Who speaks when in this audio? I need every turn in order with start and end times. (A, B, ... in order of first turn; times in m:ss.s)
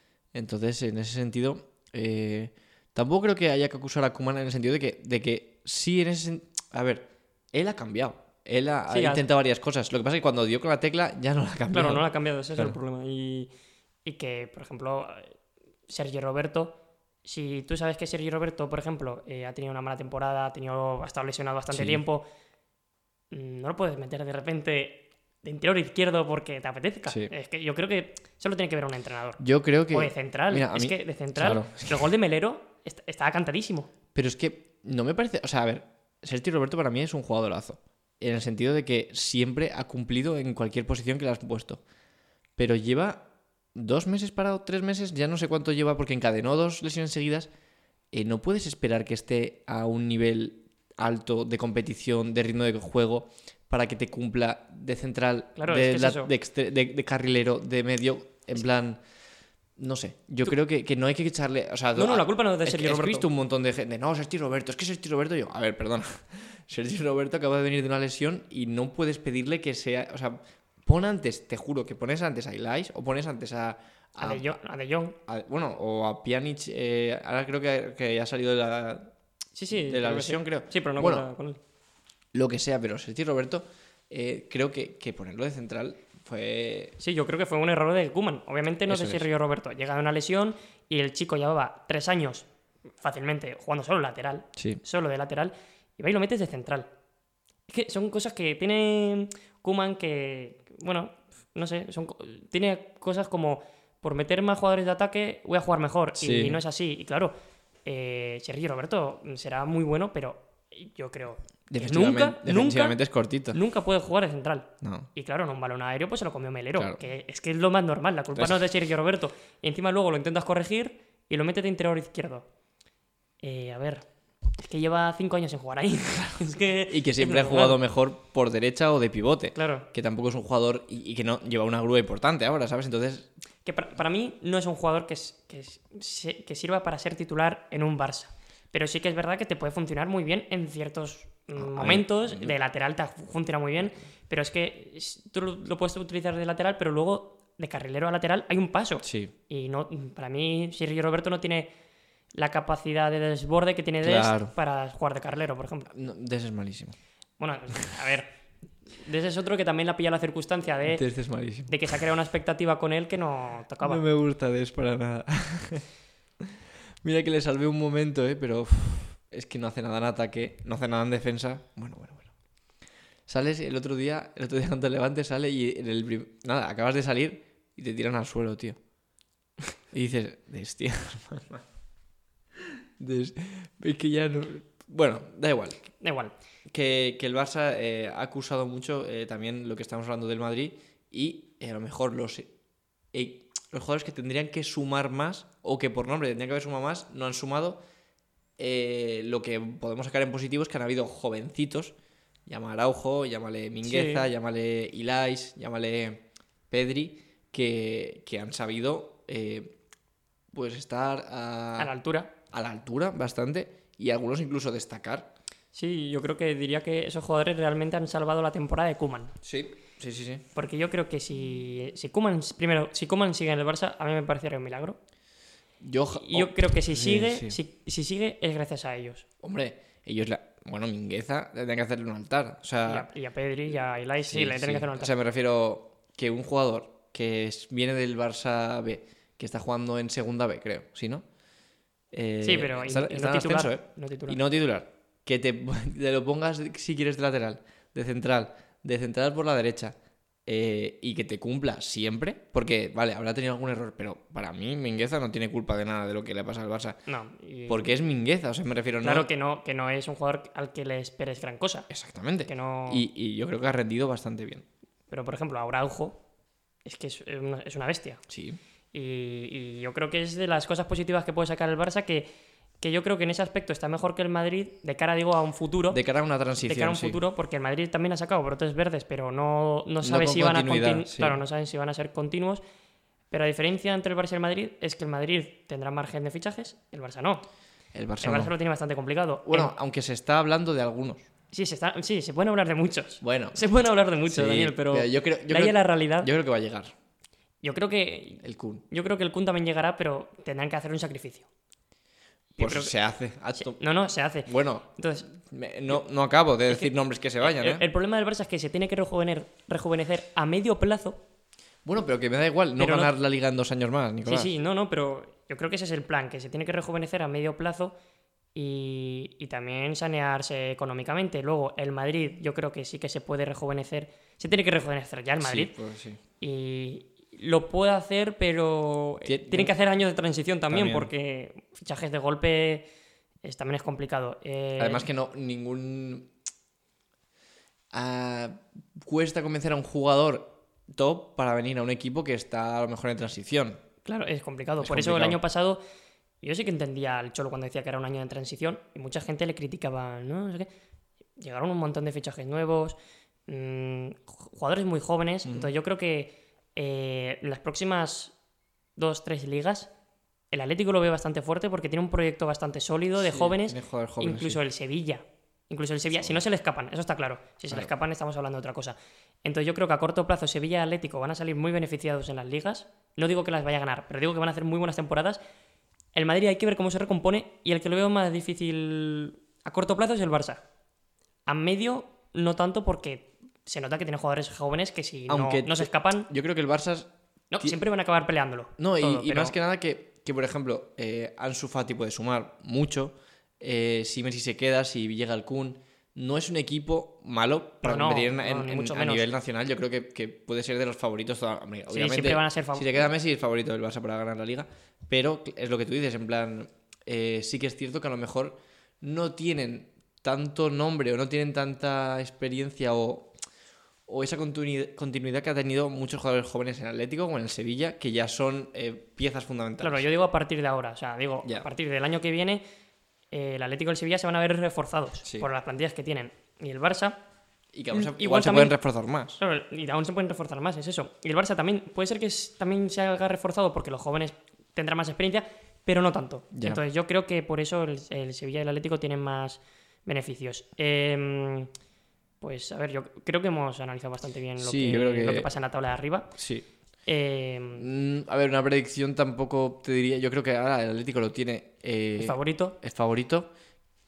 0:00.3-0:12.8 A
0:08.9-0:09.2 B
0:11.7-0:13.5 B
0:14.0-0:15.3 B
0:15.9-0:22.2 B
0:21.7-0:22.0 A
0:23.3-0:29.4 B
0:27.1-0:27.3 A
0:29.4-0:32.1 A
0:29.9-0:33.9 B
0:34.2-0:41.8 A
0:42.6-0:47.5 A
0:48.1-0:59.0 A
0:55.6-0:56.3 B
0:59.8-1:14.4 A
1:02.0-1:03.3 B
1:14.2-1:15.2 B
1:15.3-1:19.1 A
1:19.6-1:21.6 B
1:19.7-1:21.3 A
1:22.3-1:27.0 A
1:27.0-1:32.5 B
1:28.9-1:29.3 A
1:33.0-1:36.9 B
1:34.6-1:34.8 A
1:37.7-1:47.3 B
1:46.2-1:46.6 A
1:47.8-1:53.0 B
1:51.7-1:53.6 A
1:53.5-2:02.5 B
1:54.8-1:55.1 A
1:58.4-1:58.6 A
2:03.4-2:04.1 B
2:04.6-2:07.8 B
2:06.9-2:13.3 A
2:09.6-2:09.9 B
2:13.6-2:31.7 B
2:21.6-2:22.5 A
2:29.0-2:29.3 A
2:32.4-2:35.9 B
2:34.0-2:34.5 A
2:35.9-2:37.0 A
2:37.4-2:38.3 B
2:38.9-2:41.0 B
2:40.9-2:42.0 A
2:41.7-2:44.0 B
2:43.8-2:45.8 A
2:47.0-2:52.3 A
2:53.3-2:58.8 A
2:59.9-3:01.6 A
3:03.0-3:05.9 A
3:06.0-3:06.3 B
3:06.7-3:12.5 A
3:13.1-3:17.8 A
3:18.6-3:21.9 A
3:22.5-3:29.8 A
3:23.8-3:24.3 B
3:30.5-3:31.9 A
3:31.8-3:32.3 B
3:32.5-3:35.3 A
3:35.7-3:39.4 B
3:39.4-3:40.4 A
3:40.6-3:45.0 B
3:45.8-3:47.6 A
3:46.1-3:49.2 B
3:49.4-3:53.1 A
3:52.9-3:55.1 B
3:54.2-4:01.2 A
4:02.1-4:10.0 A
4:02.4-4:04.4 B
4:10.5-4:17.0 A
4:17.1-4:17.9 B
4:17.7-4:19.3 A
4:19.0-4:21.9 B
4:21.9-4:24.6 A
4:22.5-4:23.0 B
4:25.1-4:26.2 B
4:26.8-4:28.2 B
4:28.3-4:28.6 A
4:28.9-4:32.3 B
4:32.8-4:36.0 B
4:35.9-4:37.2 A
4:36.6-4:42.6 B
4:40.0-4:41.4 A
4:43.3-4:47.5 B
4:47.9-4:48.5 A
4:48.2-4:49.7 B
4:49.5-4:51.3 A
4:51.5-4:56.3 B
4:53.2-4:53.6 A
4:54.3-4:56.9 A
4:57.6-5:01.5 B
4:58.4-4:58.8 A
5:02.6-5:02.9 B
5:02.6-5:03.8 A
5:03.6-5:05.3 B
5:04.4-5:07.8 A
5:07.4-5:11.2 B
5:11.8-5:14.5 A
5:12.8-5:13.1 B
5:14.3-5:18.0 B
5:18.6-5:25.7 B
5:25.4-5:26.2 A
5:26.4-5:32.9 B
5:29.2-5:29.7 A
5:30.7-5:31.1 A
5:33.4-5:35.0 B
5:34.8-5:36.3 A
5:37.9-5:43.8 A
5:44.0-5:45.8 B
5:44.8-5:45.4 A
5:46.4-5:50.7 B
5:51.4-5:58.4 B
5:55.4-5:55.7 A
5:59.0-5:59.9 B
6:00.5-6:15.4 B
6:03.2-6:04.6 A
6:16.1-6:20.6 B
6:21.5-6:26.3 B
6:25.3-6:27.1 A
6:27.5-6:29.6 B
6:28.8-6:53.3 A
6:37.8-6:39.3 B
6:41.9-6:43.1 B
6:54.1-7:00.0 A
6:59.8-7:02.6 B
7:03.3-7:07.2 B
7:05.2-7:05.5 A
7:07.7-7:09.4 A
7:07.9-7:08.8 B
7:09.4-7:21.7 B
7:16.5-7:16.8 A
7:22.4-7:26.3 B
7:24.6-7:25.5 A
7:26.4-7:26.7 A
7:27.0-7:27.8 B
7:27.8-7:33.5 A
7:32.2-7:32.8 B